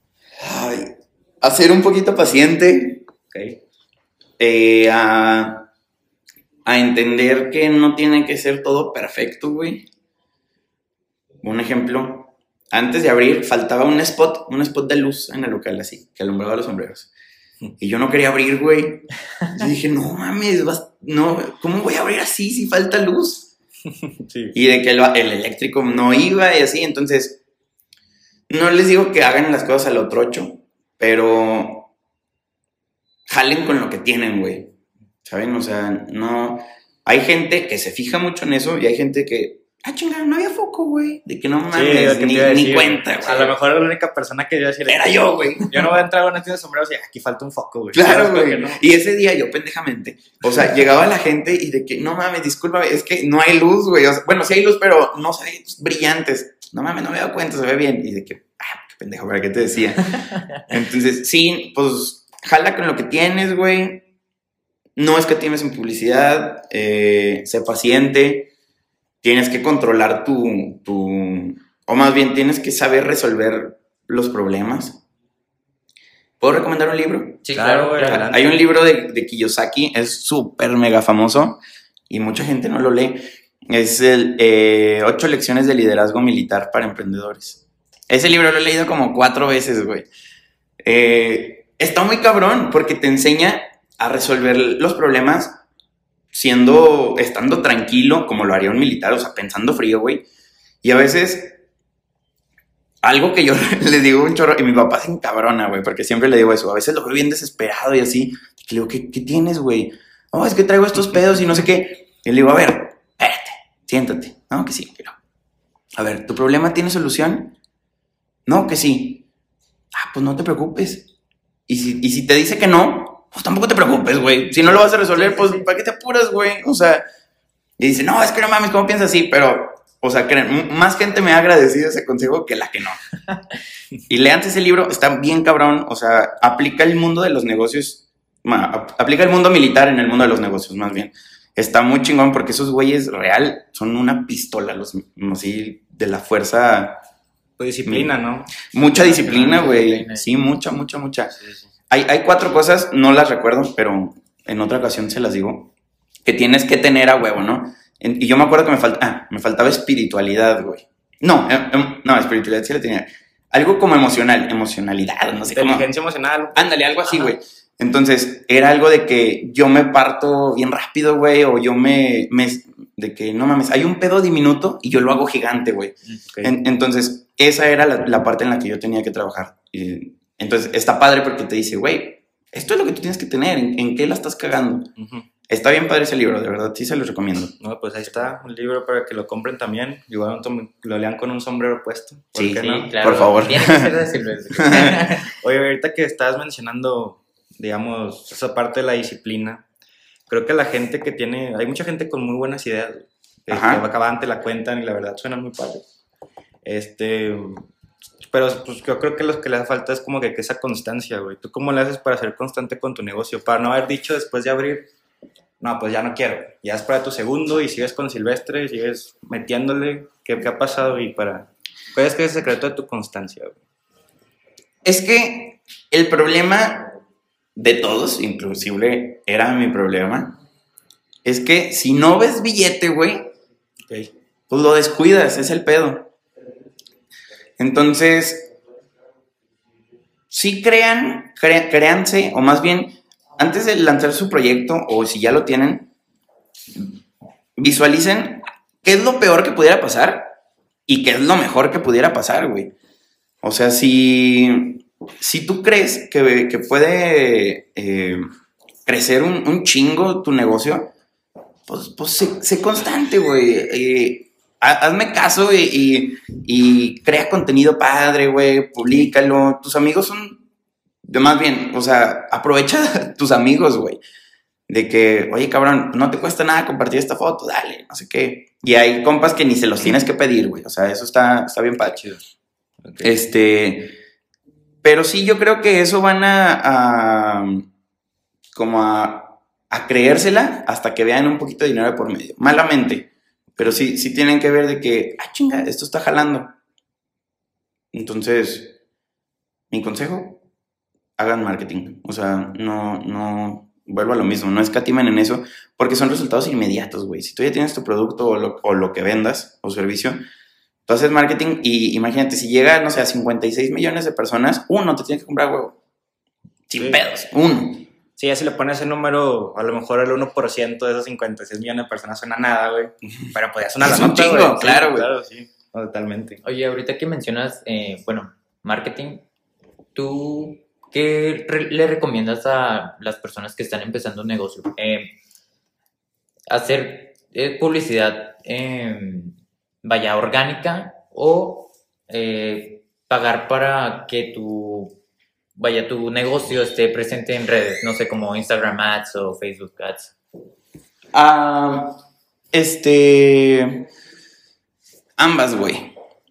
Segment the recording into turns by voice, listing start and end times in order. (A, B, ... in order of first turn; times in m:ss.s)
0:00.4-0:03.1 A
0:03.3-0:03.6 B
0:04.4-0:05.7 A
0:06.7-0:09.9 A
0:11.4-0:17.1 A
0:17.8-0:23.5 A
0:24.0-0:24.6 B
0:24.5-0:27.4 A
0:28.5-0:31.9 A
0:33.3-0:34.7 A
0:35.2-0:43.6 A
0:41.7-0:48.8 B
0:44.9-0:46.0 A
0:47.9-1:04.0 A
1:05.0-1:08.5 A
1:09.2-1:15.0 A
1:16.4-1:17.4 A
1:17.4-1:18.3 C
1:17.6-1:18.6 B
1:18.3-1:30.1 A
1:30.8-1:35.6 A
1:36.3-1:40.3 A
1:40.8-1:41.6 A
1:43.0-1:55.2 A
1:56.0-1:57.6 A
1:58.5-1:59.2 A
1:59.9-2:01.1 A
2:01.7-2:07.0 A
2:04.8-2:05.7 C
2:07.8-2:13.0 A
2:14.1-2:27.0 A
2:27.6-2:28.6 B
2:27.8-2:31.3 A
2:29.0-2:30.3 C
2:31.4-2:31.7 B
2:31.9-2:35.7 A
2:36.2-2:45.9 A
2:45.5-2:47.3 B
2:46.5-3:04.9 A
2:56.3-2:56.6 B
3:05.0-3:05.3 B
3:05.5-3:07.6 A
3:07.6-3:12.9 B
3:12.3-3:14.0 A
3:12.6-3:15.3 C
3:14.5-3:15.0 A
3:14.8-3:19.6 B
3:20.3-3:25.8 B
3:23.5-3:23.8 A
3:26.6-3:27.7 B
3:28.3-3:34.9 B
3:35.6-3:43.6 B
3:44.8-3:46.9 A
3:47.6-3:50.4 A
3:51.2-3:53.3 A
3:54.5-3:56.1 A
3:57.6-3:58.5 A
4:00.3-4:05.9 A
4:07.6-4:10.4 A
4:10.9-4:12.7 A
4:13.4-4:18.3 A
4:18.9-4:20.9 A
4:21.7-4:30.4 A
4:31.1-4:34.0 A
4:34.7-4:42.0 A
4:41.9-4:42.2 B
4:42.8-4:43.2 B
4:43.0-4:44.0 A
4:44.8-4:47.6 A
4:48.5-4:56.5 A
4:57.9-4:58.8 A
4:59.7-5:00.4 A
5:01.2-5:10.2 A
5:10.9-5:15.8 A
5:16.7-5:17.9 A
5:16.8-5:17.0 B
5:18.2-5:26.4 B
5:23.8-5:25.1 A
5:26.4-5:29.2 C
5:30.0-5:35.1 C
5:36.5-5:45.0 C
5:45.6-5:50.1 C
5:51.1-5:52.0 A
5:52.5-5:53.9 A
5:55.2-5:55.9 A